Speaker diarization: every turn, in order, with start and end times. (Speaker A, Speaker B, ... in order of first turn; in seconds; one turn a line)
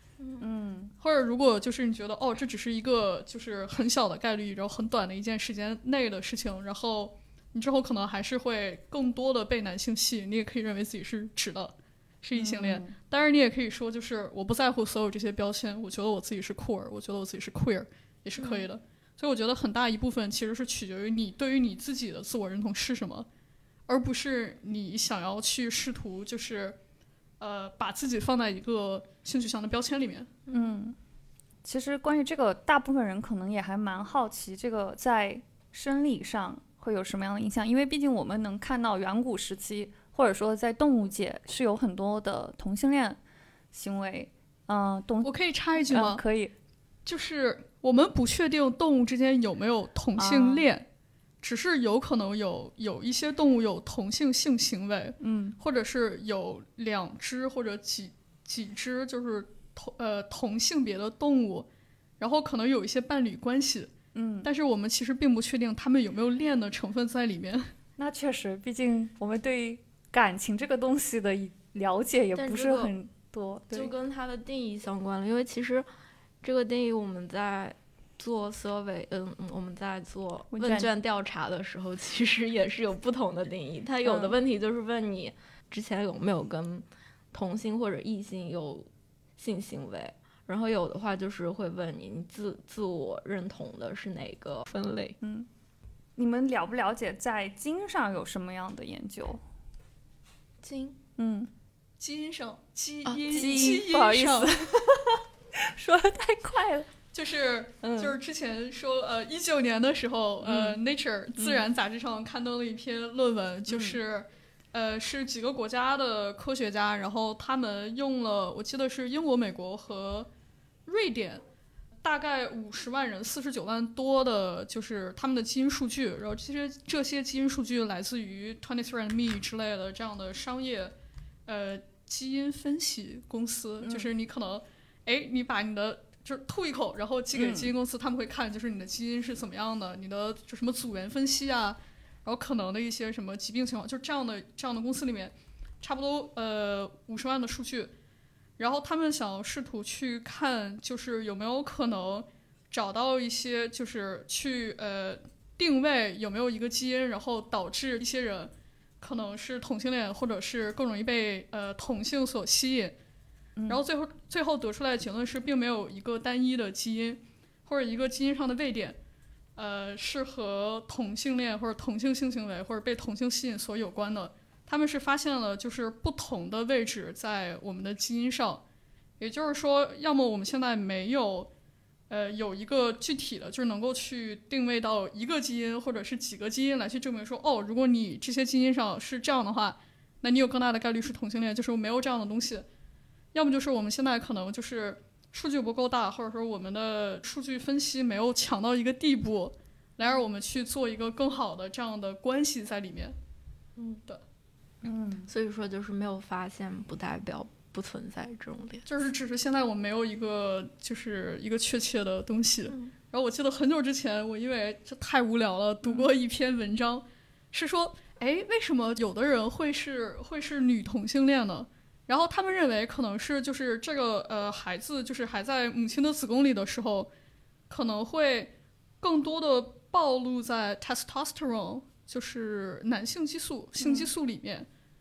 Speaker A: 0.4-0.9
Speaker B: 1.0-23.3
Speaker A: 12.3-12.9
Speaker B: 23.9-26.8
Speaker B: 27.4-30.5
Speaker A: 30.5-31.0
Speaker A: 31.6-43.2
Speaker A: 43.7-46.5
Speaker B: 45.2-46.2
Speaker B: 47.1-50.9
Speaker A: 50.2-50.6
Speaker B: 51.4-61.7
Speaker A: 55.2-55.6
Speaker B: 62.2-63.9
Speaker A: 64.1-64.5
Speaker B: 64.4-67.7
Speaker A: 68.0-73.9
Speaker C: 72.3-72.9
Speaker C: 73.7-75.9
Speaker C: 76.4-95.2
Speaker A: 80.5-80.9
Speaker A: 84.0-84.3
Speaker A: 95.2-95.5
Speaker A: 96.2-99.4
Speaker C: 100.6-101.0
Speaker A: 101.2-101.5
Speaker B: 102.0-104.8
Speaker C: 103.0-103.8
Speaker A: 103.3-106.9
Speaker B: 107.1-120.3
Speaker C: 107.8-108.2
Speaker A: 111.4-111.6
Speaker A: 113.7-114.0
Speaker B: 120.9-121.4
Speaker B: 122.0-130.9
Speaker B: 131.5-147.9
Speaker A: 133.8-134.1
Speaker A: 137.3-137.7
Speaker B: 148.6-162.9
Speaker B: 163.7-169.0
Speaker B: 169.6-178.6
Speaker B: 179.2-181.5
Speaker B: 182.1-192.7
Speaker B: 193.3-203.2
Speaker C: 203.8-204.0
Speaker A: 204.8-205.3
Speaker C: 205.3-208.9
Speaker B: 208.9-227.1
Speaker B: 227.7-234.7
Speaker A: 233.8-234.1